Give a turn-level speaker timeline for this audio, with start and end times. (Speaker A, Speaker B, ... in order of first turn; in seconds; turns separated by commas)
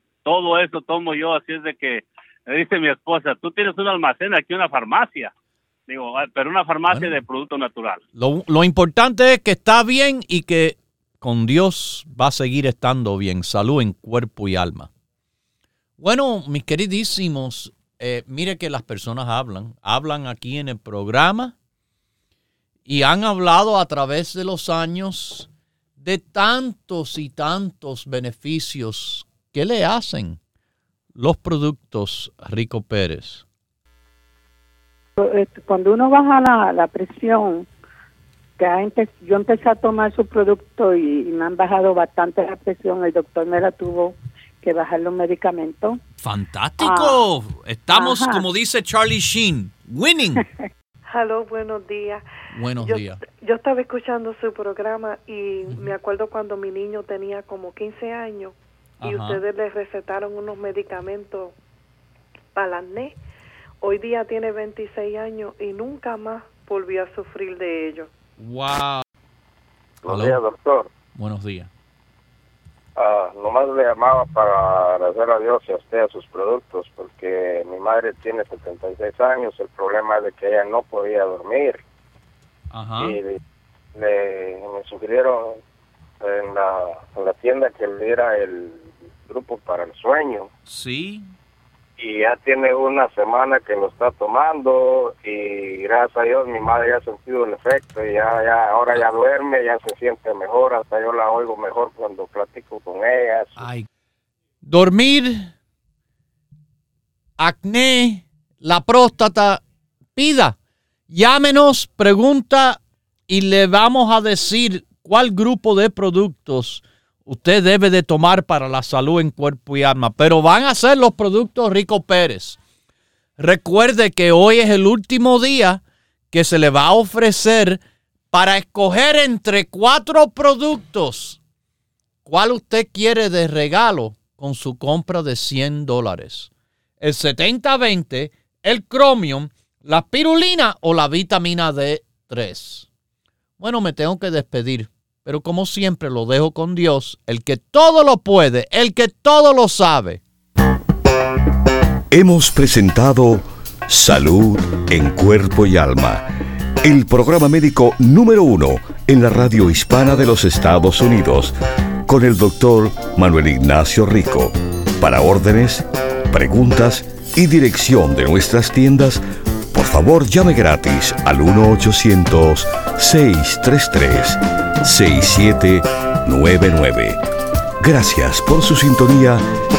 Speaker A: 0.2-5.3, Speaker A: 5.9-8.0, Speaker B: 6.9-7.2, Speaker B: 8.2-14.9, Speaker B: 16.0-21.5, Speaker B: 22.9-30.4, Speaker B: 31.1-33.4, Speaker C: 35.2-37.7, Speaker C: 38.6-46.0, Speaker B: 46.2-50.4, Speaker C: 46.8-47.2, Speaker C: 47.9-48.5, Speaker D: 51.1-52.2, Speaker B: 52.5-53.2, Speaker D: 52.8-61.5, Speaker B: 59.0-59.4, Speaker D: 62.5-63.1, Speaker D: 63.8-68.1, Speaker B: 68.4-69.0, Speaker B: 70.0-70.4, Speaker E: 70.0-70.9, Speaker B: 71.1-71.7, Speaker E: 73.0-81.8, Speaker B: 82.7-83.2, Speaker E: 83.0-83.4, Speaker E: 83.9-85.6, Speaker E: 86.2-90.5, Speaker B: 90.7-91.3, Speaker E: 92.0-103.7, Speaker B: 103.6-103.9, Speaker B: 104.6-105.5, Speaker B: 107.4-109.6, Speaker B: 110.2-110.6, Speaker B: 111.1-122.6, Speaker B: 123.4-127.8, Speaker B: 128.3-131.4, Speaker B: 132.2-136.5, Speaker B: 137.0-142.9, Speaker B: 143.6-150.2, Speaker F: 152.1-156.2, Speaker F: 156.8-161.5, Speaker F: 162.1-177.2, Speaker F: 177.8-179.4